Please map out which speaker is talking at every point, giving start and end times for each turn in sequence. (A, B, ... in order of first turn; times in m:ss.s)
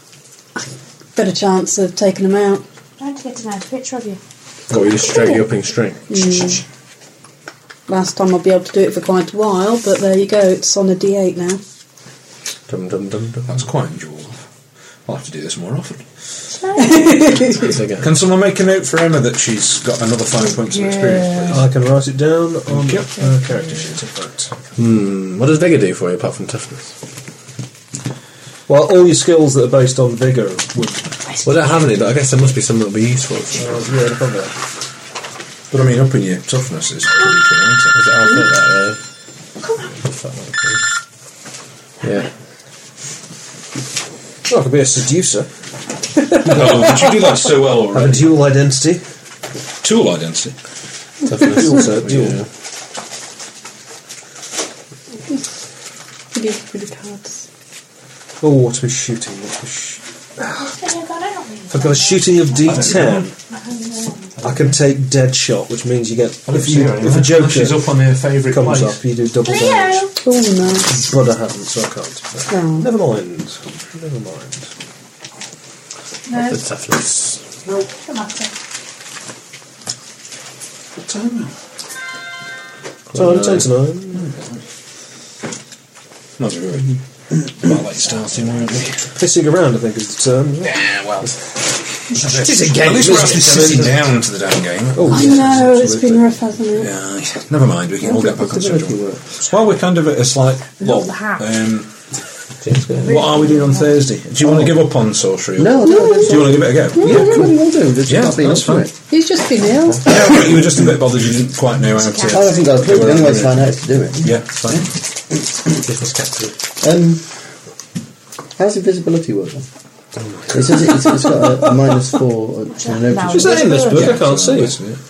0:00.6-0:02.6 A
0:03.0-0:04.2 B
0:04.7-0:06.3 C
0:06.1-0:06.6 A
0:07.9-0:11.6 A
0:12.7-0:13.7 C
0:13.5-0:14.4 D
0:15.1-0:16.1 D
0:16.6-0:17.2 B
0:16.8-0:17.8 A
0:17.6-0:18.1 C
0:18.0-0:21.7 D
0:20.5-0:21.6 B
0:21.5-0:24.5 E
0:22.7-0:23.1 D
0:24.8-0:26.9 C
0:28.7-0:31.1 E
0:31.4-0:34.0 C
0:33.6-0:34.5 E
0:35.7-0:38.0 D
0:37.9-0:39.0 C
0:40.0-0:40.8 C
0:42.0-0:42.3 C
0:44.5-0:45.5 E
0:46.4-0:47.2 E
0:46.4-0:48.3 D
0:47.9-0:49.0 E
0:49.8-0:50.5 D
0:51.3-0:52.4 C
0:51.3-0:52.4 E
0:56.3-0:57.4 A
0:58.4-1:00.0 E
1:00.6-1:04.3 B
1:01.7-1:03.4 E
1:02.7-1:03.2 D
1:04.4-1:07.9 E
1:06.5-1:09.0 D
1:08.5-1:10.1 E
1:09.4-1:10.1 B
1:10.2-1:11.0 A
1:10.9-1:14.7 E
1:12.5-1:12.9 A
1:16.3-1:17.4 C
1:16.3-1:16.6 B
1:17.7-1:18.5 B
1:21.0-1:21.5 D
1:23.1-1:24.3 E
1:23.2-1:23.6 C
1:24.2-1:24.5 D
1:26.4-1:27.0 D
1:27.6-1:29.0 D
1:29.2-1:30.9 E
1:30.7-1:31.3 D
1:32.1-1:34.1 E
1:32.3-1:41.9 D
1:34.9-1:35.7 E
1:35.0-1:36.9 A
1:38.2-1:38.9 F
1:40.8-1:41.4 B
1:42.6-1:43.2 C
1:43.0-1:47.5 D
1:43.1-1:43.8 B
1:45.6-1:48.9 F
1:45.8-1:47.5 A
1:48.1-1:48.9 D
1:49.1-1:50.4 A
1:50.0-1:53.7 D
1:52.0-1:52.7 B
1:52.3-1:54.9 F
1:54.2-1:54.9 D
1:55.8-1:56.6 C
1:56.8-1:57.2 F
1:58.6-1:59.7 F
2:00.5-2:03.7 F
2:02.7-2:04.2 B
2:03.3-2:04.8 E
2:03.9-2:05.0 D